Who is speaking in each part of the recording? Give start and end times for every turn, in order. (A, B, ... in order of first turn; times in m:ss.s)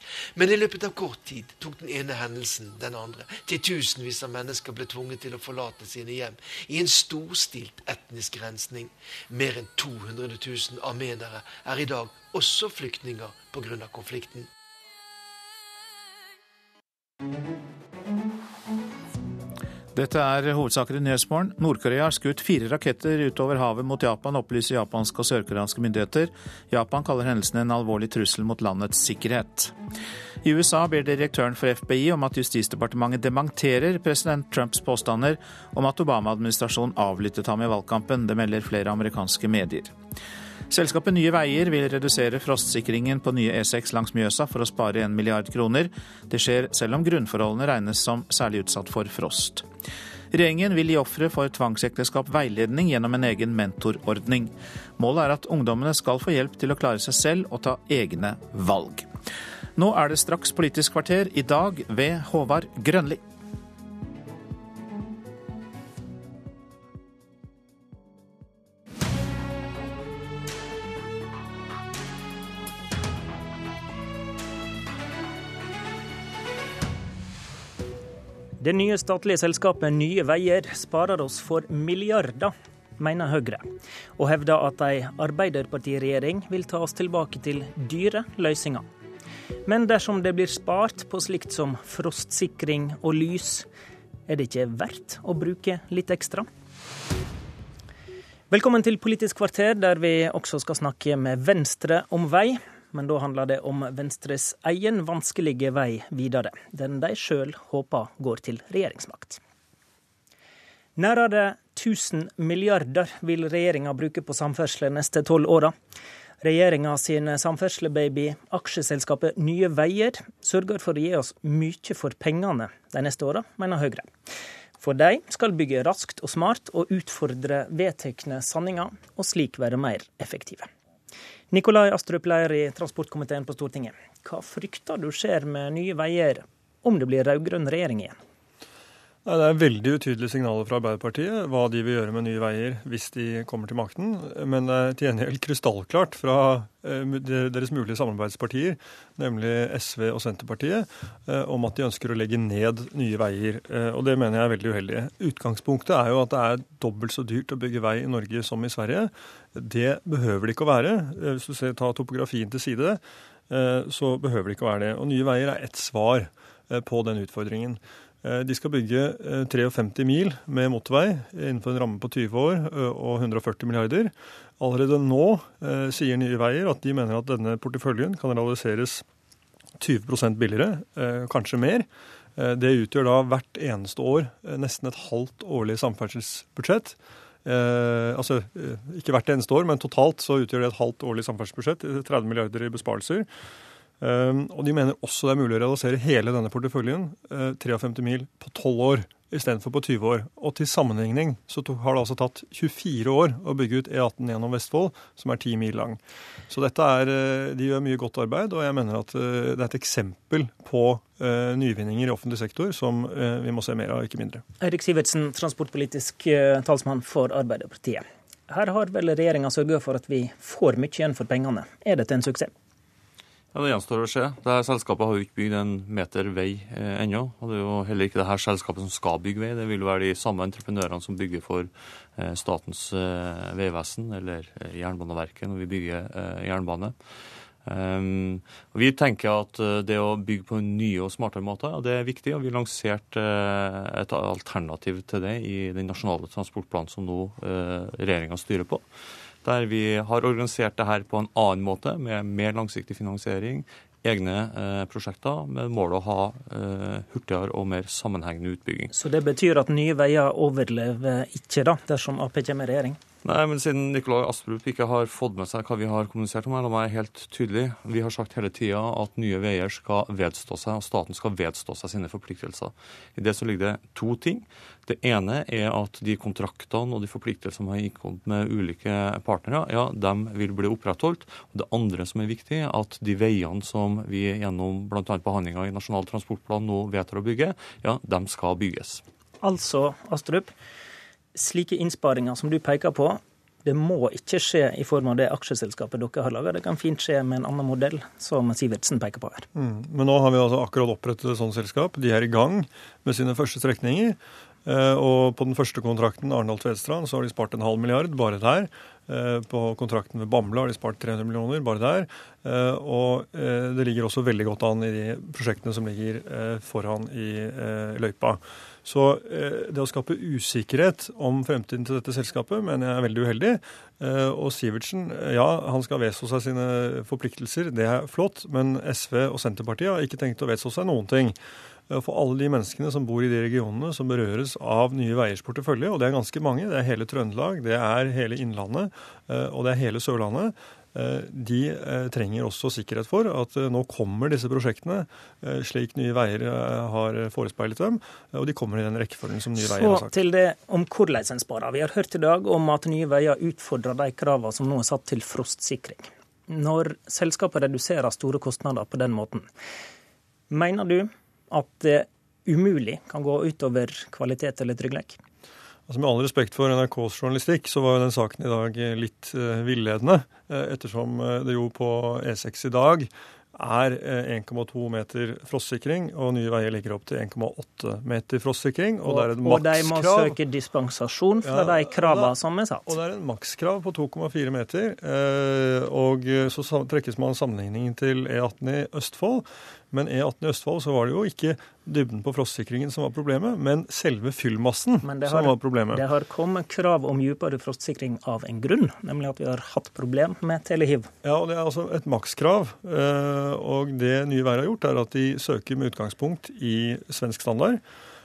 0:00.4-0:14.5 A
0:19.9-0:29.7 B
0:30.4-0:40.0 B
0:40.7-0:49.7 B
0:50.3-0:59.1 B
0:59.8-1:03.2 B
1:18.6-1:28.9 C
1:29.7-1:33.7 C
1:34.3-1:36.5 C
1:38.5-1:49.4 C
1:51.0-1:55.8 C
1:56.4-2:04.1 C
2:04.8-2:10.7 C
2:11.5-2:18.2 C
2:19.2-2:59.0 D
2:59.8-3:13.3 D
3:14.0-3:34.4 D
3:34.6-3:42.5 C
3:43.5-3:57.0 E
3:57.7-4:08.8 E
4:09.4-4:18.9 E
4:18.9-4:23.0 C
4:23.2-4:49.0 E
4:49.4-4:50.5 C
4:51.4-4:59.5 C
4:59.6-5:31.4 D
5:31.9-5:50.1 D
5:49.6-5:59.5 C
6:00.5-6:05.2 C
6:05.9-6:20.4 D
6:19.0-6:23.0 C
6:21.4-6:36.0 D
6:35.0-6:41.1 C
6:41.2-6:47.8 D